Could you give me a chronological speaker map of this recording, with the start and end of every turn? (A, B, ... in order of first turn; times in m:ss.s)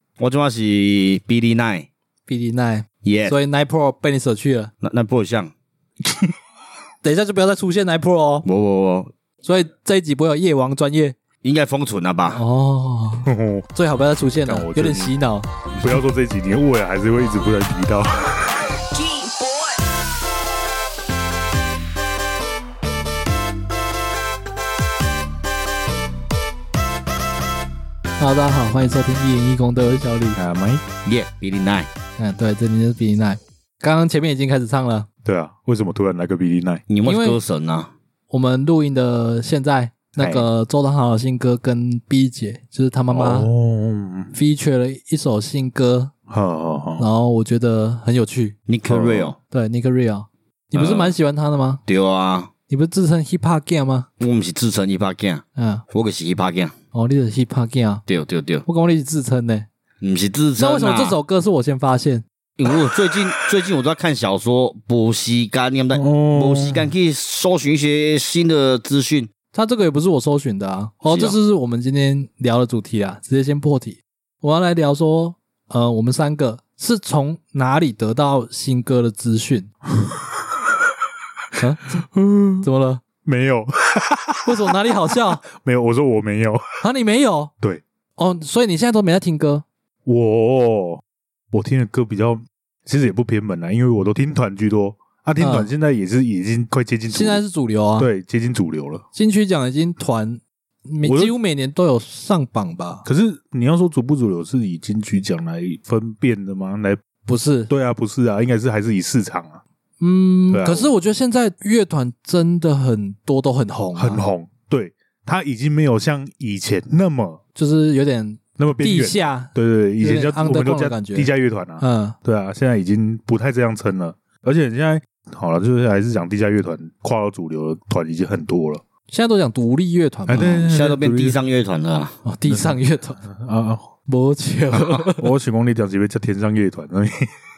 0:00.2-0:01.9 A
0:02.3-0:04.7 B
0:03.0-0:03.4 A
0:04.8-0:05.5 A
0:07.0-0:08.5 B
0:08.4-0:09.1 A
0:09.4-0:11.2 B
0:11.4-0:12.4 A
0:12.3-0:15.5 B
0:13.3-0:13.7 C
0:14.4-0:15.1 C
0:15.8-0:18.8 C
0:28.2-0:30.4 B
0:30.4-0:30.8 C
0:31.0-0:31.9 A
0:32.2-0:35.1 B
0:35.2-0:36.8 C
0:36.9-0:37.9 A
0:37.0-0:37.4 B
0:38.3-0:43.5 B
0:40.2-0:40.5 A
0:43.1-0:44.3 C
0:44.3-0:46.1 B
0:46.3-0:47.1 C
0:47.0-0:48.6 B
0:48.7-0:49.4 A
0:48.9-0:49.4 C
0:49.5-0:51.8 B
0:50.7-0:51.2 A
0:51.9-0:52.5 A
0:52.7-0:54.1 B
0:54.2-0:56.8 A
0:55.6-0:55.8 B
0:56.9-0:58.0 B
0:58.1-0:58.6 A
0:58.7-0:59.7 B
1:00.0-1:01.2 A
1:00.6-1:02.2 B
1:02.6-1:09.3 A
1:05.9-1:06.9 C
1:09.5-1:19.7 B
1:11.1-1:11.4 A
1:20.0-1:20.7 C
1:21.6-1:22.0 B
1:22.0-1:22.7 C
1:22.6-1:23.0 B
1:23.2-1:26.8 C
1:24.4-1:25.4 B
1:26.8-1:27.5 B
1:28.2-1:29.6 B
1:30.1-1:37.4 C
1:35.4-1:35.7 B
1:37.1-1:38.1 B
1:38.0-1:39.0 C
1:39.2-1:43.1 B
1:41.0-1:41.3 C
1:43.1-1:47.0 C
1:47.2-1:47.7 B
1:47.7-1:49.6 C
1:50.0-1:54.2 B
1:50.5-1:50.9 C
1:54.0-1:57.4 C
1:57.6-2:02.2 B
1:58.6-2:08.8 C
2:09.1-2:10.7 B
2:10.3-2:11.4 C
2:10.4-2:12.2 A
2:12.2-2:13.2 B
2:12.5-2:13.9 C
2:14.1-2:15.3 B
2:15.0-2:17.3 C